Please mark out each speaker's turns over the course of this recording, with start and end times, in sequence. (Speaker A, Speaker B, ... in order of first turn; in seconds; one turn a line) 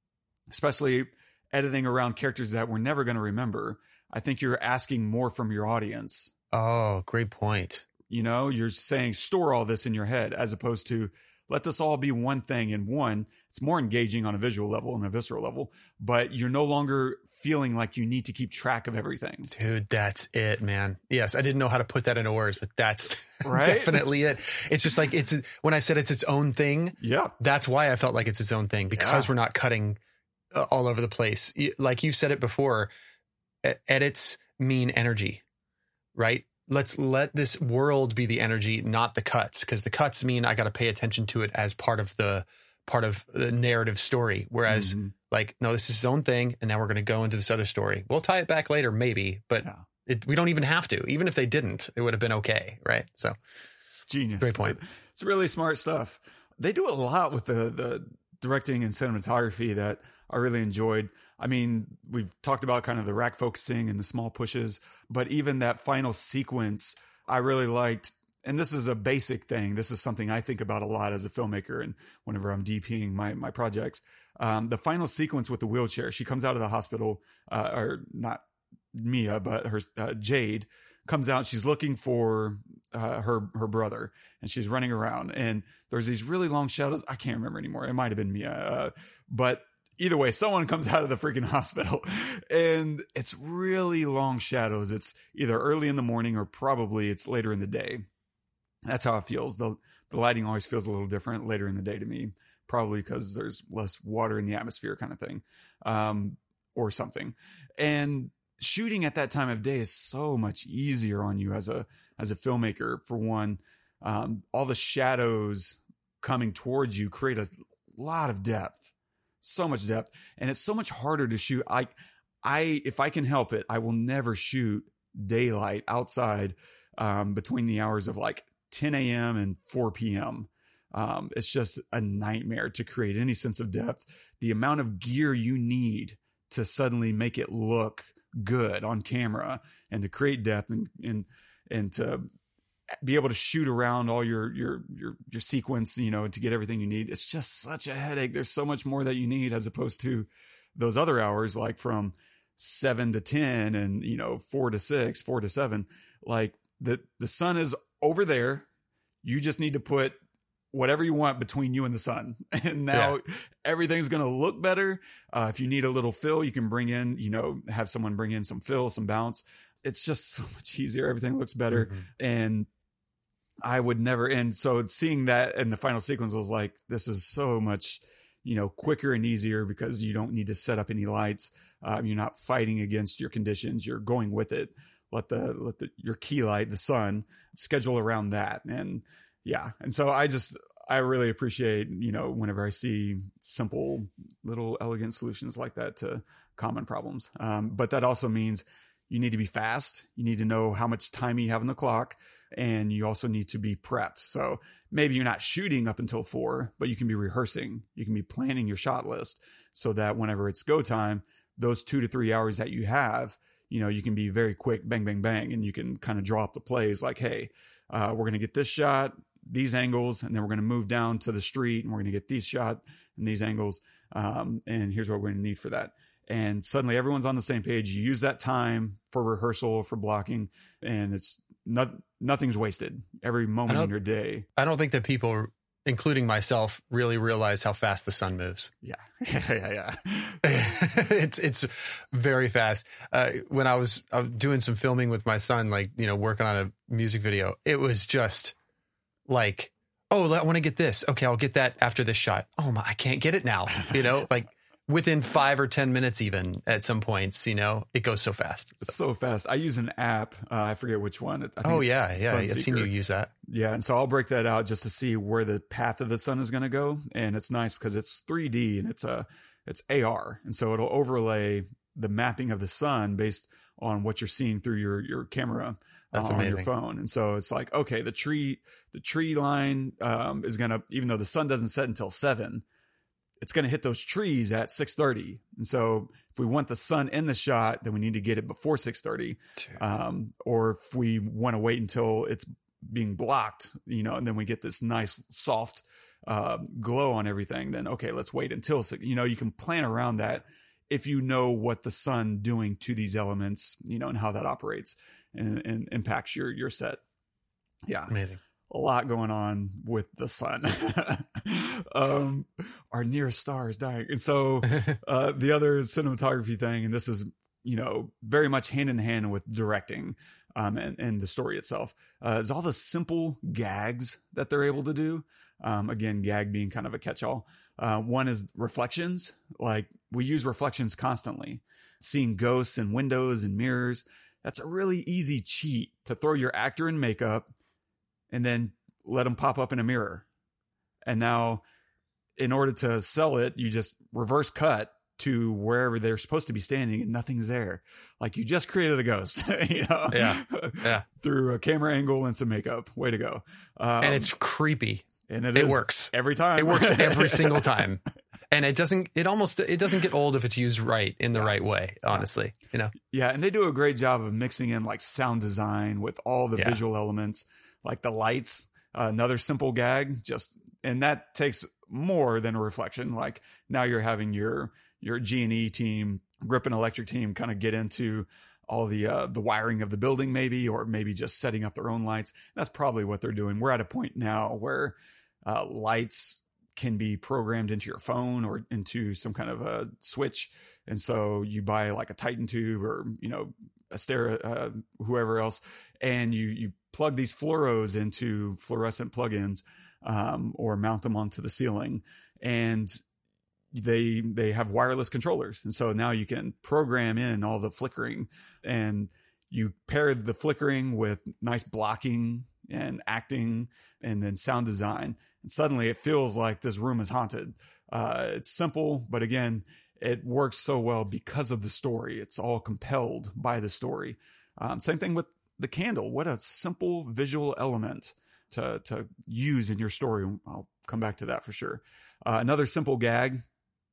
Speaker A: 0.5-6.3
Speaker B: 6.5-7.8
Speaker A: 8.1-19.5
Speaker B: 19.5-30.0
Speaker A: 23.4-24.1
Speaker A: 27.0-27.3
Speaker A: 28.9-29.3
Speaker B: 30.5-32.9
Speaker B: 33.6-35.4
Speaker B: 36.1-53.4
Speaker A: 44.7-45.1
Speaker A: 54.1-78.4
Speaker B: 54.4-54.8
Speaker A: 78.9-98.1
Speaker A: 98.8-118.9
Speaker A: 119.4-142.2
Speaker A: 143.0-158.7
Speaker A: 159.2-160.2
Speaker A: 160.7-172.7
Speaker B: 162.9-163.2
Speaker B: 171.7-172.1
Speaker A: 173.6-234.4
Speaker B: 234.6-238.7
Speaker A: 238.8-240.8
Speaker B: 240.4-248.5
Speaker B: 249.3-258.9
Speaker A: 258.9-262.9
Speaker B: 261.6-263.3
Speaker A: 263.4-282.6
Speaker B: 276.1-276.7
Speaker A: 283.4-307.0
Speaker A: 307.9-308.1
Speaker B: 308.1-308.4
Speaker A: 308.7-337.5
Speaker A: 338.3-340.2
Speaker A: 341.0-341.6
Speaker A: 342.4-354.3
Speaker B: 350.1-351.0
Speaker B: 354.0-362.9
Speaker A: 355.3-357.7
Speaker A: 363.0-403.0
Speaker A: 403.7-433.4